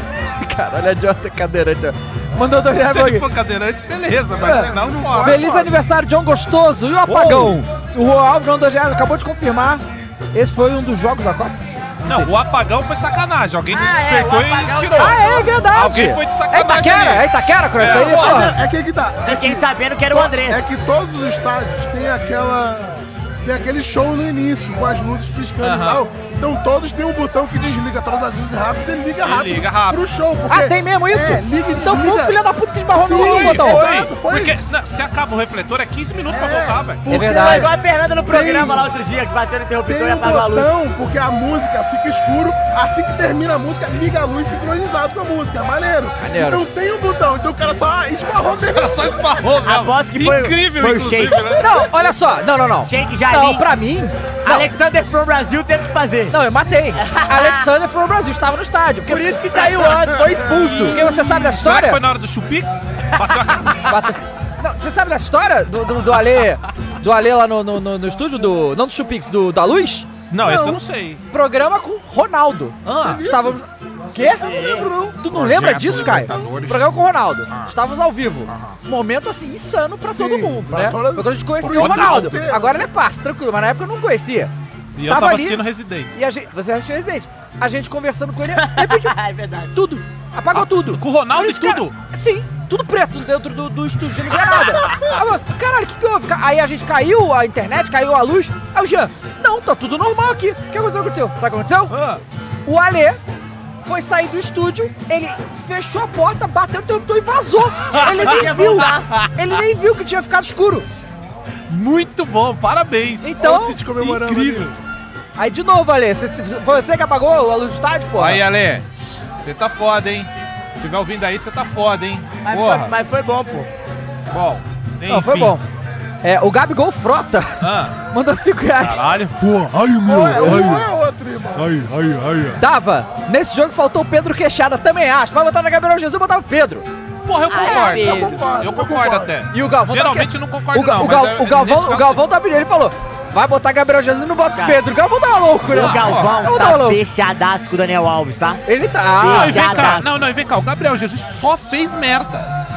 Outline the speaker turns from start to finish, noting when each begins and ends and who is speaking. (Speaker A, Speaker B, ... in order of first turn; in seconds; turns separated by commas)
Speaker A: 0.4-3.2, Speaker B: 2.8-5.4, Speaker C: 4.3-5.8, Speaker A: 5.2-12.3, Speaker B: 7.1-7.6, Speaker B: 12.0-17.3, Speaker D: 13.7-15.4, Speaker A: 15.0-18.5, Speaker B: 17.8-18.5, Speaker C: 17.8-32.4, Speaker D: 19.2-20.6, Speaker B: 25.6-26.0, Speaker B: 29.2-30.0, Speaker A: 30.5-33.9, Speaker C: 33.0-34.6, Speaker B: 33.2-37.0, Speaker C: 36.3-37.8, Speaker A: 37.1-37.7, Speaker D: 37.1-40.7, Speaker C: 38.3-38.9, Speaker C: 39.8-49.3, Speaker A: 46.2-46.6, Speaker B: 48.5-51.7, Speaker D: 49.6-51.8, Speaker A: 51.6-54.7, Speaker D: 52.9-53.7, Speaker D: 54.5-56.4, Speaker A: 56.3-59.6, Speaker D: 57.0-57.7, Speaker D: 59.1-61.0, Speaker C: 59.5-61.4, Speaker A: 60.4-62.0, Speaker B: 61.3-63.9, Speaker A: 63.9-70.1, Speaker B: 70.3-71.2, Speaker C: 70.4-70.8, Speaker A: 71.3-74.4, Speaker B: 72.9-73.2, Speaker C: 73.0-73.6, Speaker C: 74.1-75.2, Speaker D: 74.4-74.9, Speaker A: 75.2-84.5, Speaker B: 75.3-76.9, Speaker C: 76.1-76.5, Speaker B: 78.5-78.8, Speaker C: 80.1-82.9, Speaker B: 81.7-82.4, Speaker B: 85.0-86.1, Speaker A: 85.1-85.6, Speaker A: 86.1-89.1, Speaker D: 88.5-89.8, Speaker A: 89.7-102.0, Speaker B: 90.5-92.0, Speaker B: 101.9-102.2, Speaker A: 102.7-103.2, Speaker A: 103.8-110.9, Speaker B: 107.9-109.3, Speaker D: 108.1-109.1, Speaker B: 111.7-113.3, Speaker A: 113.2-113.8, Speaker C: 113.4-114.7, Speaker B: 114.0-114.8, Speaker A: 115.4-118.4, Speaker B: 118.2-118.9, Speaker B: 119.4-122.9, Speaker D: 122.5-123.7, Speaker B: 124.3-125.6, Speaker A: 125.1-125.6, Speaker A: 126.2-127.6, Speaker B: 127.6-128.0, Speaker A: 128.1-129.1, Speaker B: 128.8-130.8, Speaker C: 130.0-131.9, Speaker A: 130.2-130.8, Speaker B: 131.6-132.6, Speaker A: 132.6-136.9, Speaker B: 137.2-142.2, Speaker D: 137.5-138.4, Speaker C: 137.6-139.3, Speaker A: 139.5-147.0, Speaker B: 145.7-146.4, Speaker D: 145.7-148.6, Speaker A: 148.7-149.7, Speaker D: 149.2-150.1, Speaker B: 149.3-152.5